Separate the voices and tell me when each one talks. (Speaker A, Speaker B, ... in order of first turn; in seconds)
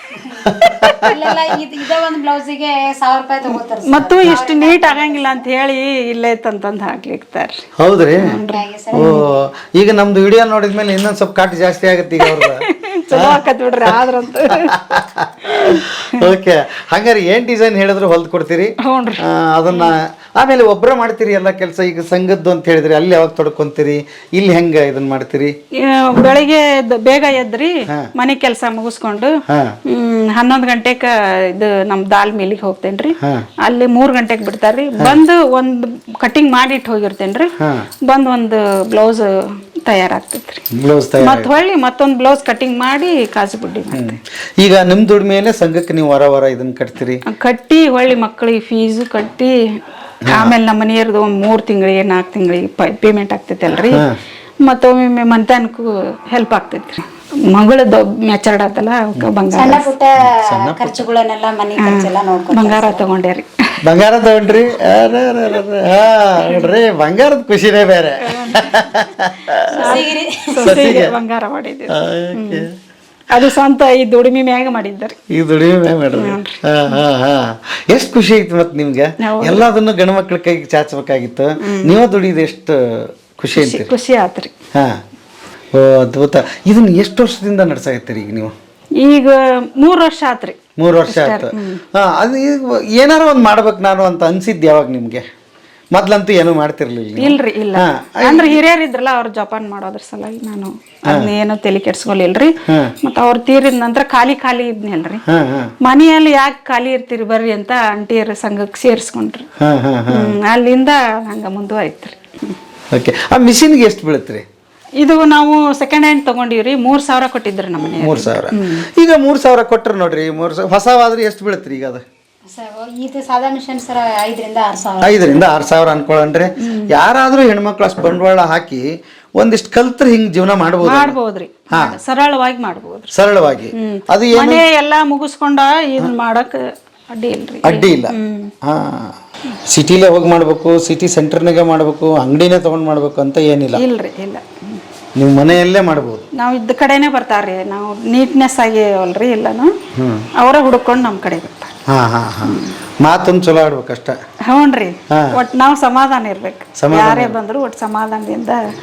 Speaker A: 0.2-5.5, 8.4-9.2, 59.5-63.0, 69.7-70.7, 122.5-125.4
Speaker B: 0.5-1.3, 7.8-8.4, 8.9-25.5, 29.5-29.8, 33.2-33.5, 37.6-37.9, 40.7-41.5, 43.9-47.2, 50.2-50.5, 53.9-54.2, 60.2-61.0, 63.8-70.0, 70.6-71.1, 71.9-72.7, 75.3-83.9, 84.7-85.0, 85.7-88.5, 90.8-95.2, 95.9-98.6, 101.1-101.3, 102.6-102.9, 105.3-105.7, 109.6-110.3, 112.9-114.4, 118.0-122.0, 125.0-131.2, 131.7-132.0, 133.1-134.6, 137.6-143.8, 145.1-146.2, 149.9-150.3, 151.9-154.2, 155.1-155.3, 156.8-157.3
Speaker C: 3.9-7.6, 8.2-8.6, 12.2-14.8, 15.5-16.2, 18.8-19.9, 25.7-37.5, 38.0-40.6, 41.2-44.2, 47.2-49.5, 50.3-54.0, 54.6-59.9, 61.8-63.8, 66.4-66.7, 68.2-68.9, 69.7-72.7, 73.3-75.2, 76.1-77.0, 79.2-79.6, 81.6-82.0, 83.5-84.5, 89.0-91.8, 97.2-105.2, 105.8-109.5, 110.1-112.6, 115.0-118.9, 126.6-126.9, 130.8-133.1, 133.7-138.5, 143.8-144.8, 146.3-149.7, 150.3-151.7, 152.4-152.7, 154.4-158.7